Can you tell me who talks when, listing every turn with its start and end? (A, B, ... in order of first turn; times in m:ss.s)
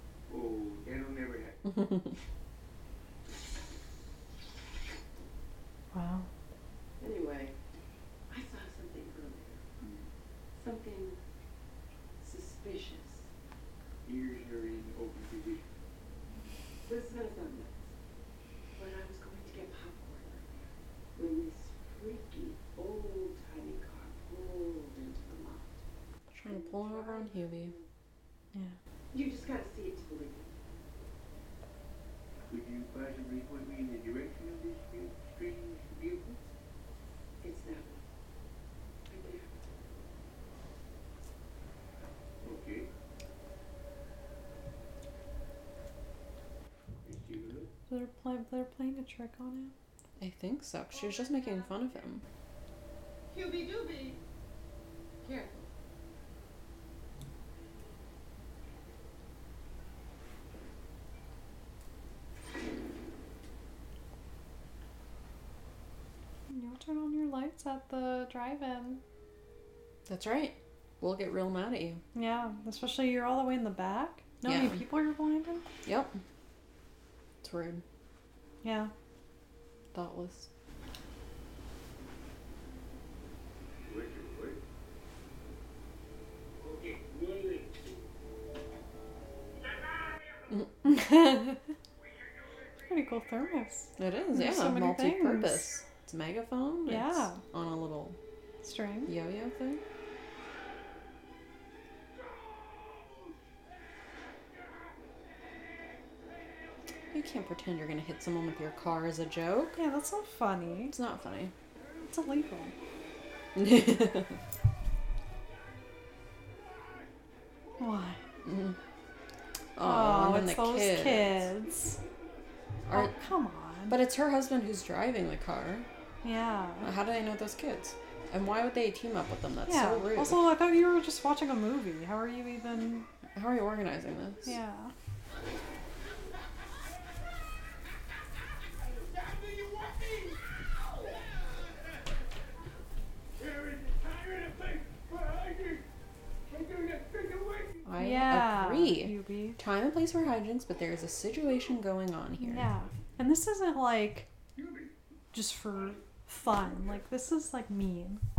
0:00.3-0:01.6 A
0:05.9-0:06.3 B
0:07.0-0:07.6 C
0:08.3-0:09.7 C
0:09.8-0:10.1 A
0:10.6-0:11.2 C
0:12.2-0:13.3 C
0:14.0-0:15.7 A
0:16.8-0:17.8 C
0:18.8-0:20.6 C
0:21.2-0:25.8 C
0:26.3-0:27.8 D
0:26.8-0:27.8 C
0:29.1-0:30.6 C
0:32.5-0:36.4 A
0:37.4-0:38.0 C
0:39.1-0:39.5 C
0:42.4-0:42.9 A
0:47.0-0:47.7 A
0:47.9-0:49.7 B
0:50.2-0:52.2 D
0:53.3-0:54.1 C
0:55.2-0:55.5 C
1:06.5-1:09.0 B
1:10.1-1:12.0 D
1:12.2-1:15.6 B
1:14.4-1:14.9 D
1:15.8-1:16.2 D
1:17.4-1:17.8 D
1:18.6-1:18.9 B
1:19.9-1:20.5 D
1:23.8-1:24.6 A
1:26.6-1:27.9 A
1:29.6-1:30.6 A
1:30.8-1:31.6 B
1:32.0-1:32.9 A
1:32.9-1:35.8 B
1:34.0-1:38.2 D
1:36.9-1:37.4 B
1:38.6-1:39.1 B
1:39.1-1:39.8 D
1:42.2-1:43.2 A
1:47.1-1:49.8 D
1:49.8-1:51.0 B
1:50.9-1:51.5 D
1:52.0-1:52.8 B
1:53.6-1:54.4 D
1:57.8-1:58.2 B
1:58.4-1:58.8 D
1:59.8-2:01.5 D
1:59.8-2:02.0 B
2:02.9-2:03.1 D
2:02.9-2:04.0 B
2:03.9-2:05.9 D
2:06.2-2:06.9 B
2:06.8-2:10.5 D
2:09.7-2:13.1 B
2:13.4-2:14.6 D
2:14.5-2:14.9 B
2:19.0-2:20.5 A
2:23.4-2:25.8 A
2:26.5-2:27.9 A
2:27.8-2:32.7 D
2:28.0-2:29.6 B
2:32.4-2:34.3 B
2:34.6-2:34.9 A
2:35.3-2:38.2 B